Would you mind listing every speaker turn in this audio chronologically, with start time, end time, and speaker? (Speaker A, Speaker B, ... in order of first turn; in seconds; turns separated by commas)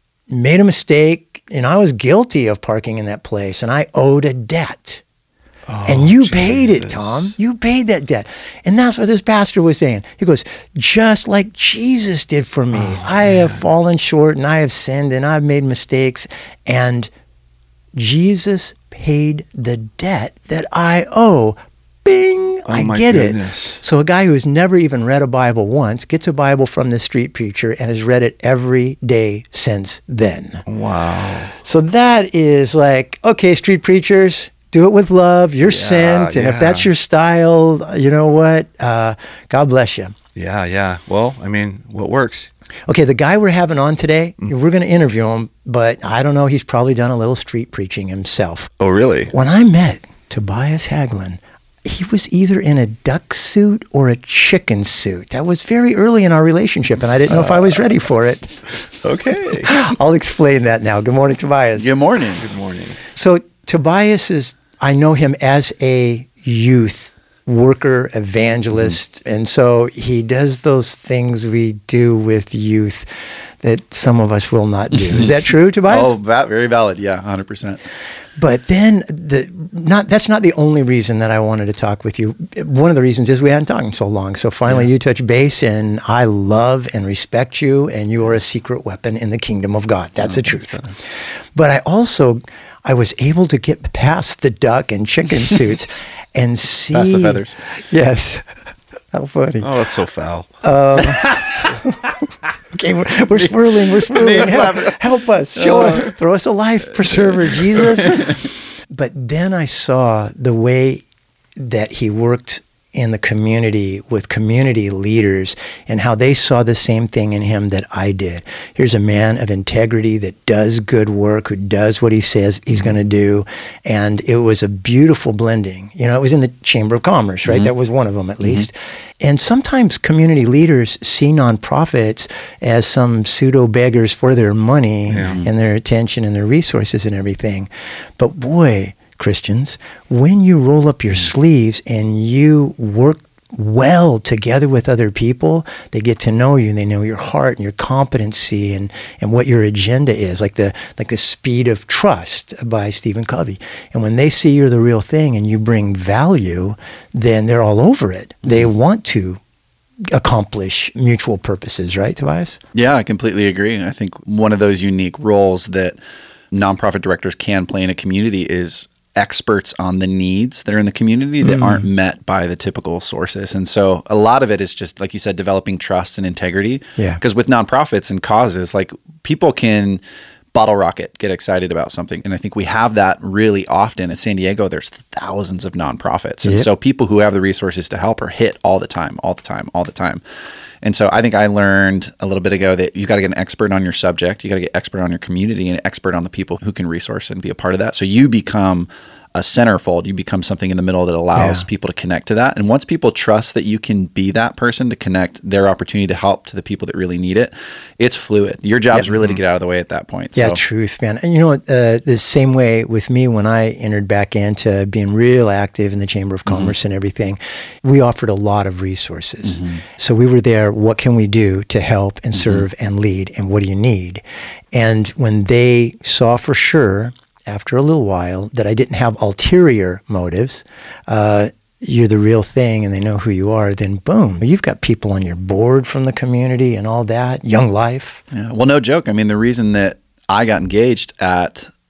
Speaker A: 0.3-5.0, Speaker B: 5.7-7.3, Speaker A: 5.8-17.1, Speaker B: 12.7-13.6, Speaker A: 17.9-30.6, Speaker B: 22.7-23.8, Speaker B: 30.6-31.6, Speaker A: 31.6-40.1, Speaker B: 35.6-36.9, Speaker B: 40.3-42.5, Speaker A: 42.9-48.7, Speaker B: 48.8-49.3, Speaker A: 49.3-58.6, Speaker B: 57.3-57.9, Speaker B: 58.9-59.7, Speaker A: 59.7-61.9, Speaker C: 61.8-62.4, Speaker B: 62.4-63.0, Speaker A: 63.1-73.0, Speaker A: 73.6-76.1, Speaker C: 75.9-77.8, Speaker A: 78.4-90.8, Speaker A: 91.5-98.5, Speaker C: 96.9-97.6, Speaker A: 99.1-99.7, Speaker B: 99.6-101.2, Speaker A: 100.6-102.0, Speaker C: 101.2-101.5, Speaker A: 102.7-111.0, Speaker B: 104.1-105.0, Speaker B: 105.6-106.1, Speaker A: 111.6-159.4, Speaker C: 127.5-127.7, Speaker B: 135.1-135.4, Speaker A: 160.1-162.6, Speaker C: 162.7-166.0, Speaker C: 166.5-180.0, Speaker A: 171.4-171.8, Speaker C: 180.5-190.2, Speaker C: 190.8-210.6, Speaker A: 201.3-201.7, Speaker A: 210.3-224.2, Speaker C: 216.5-216.7, Speaker C: 219.4-219.8, Speaker C: 222.3-222.6, Speaker A: 224.7-238.2, Speaker C: 238.3-241.7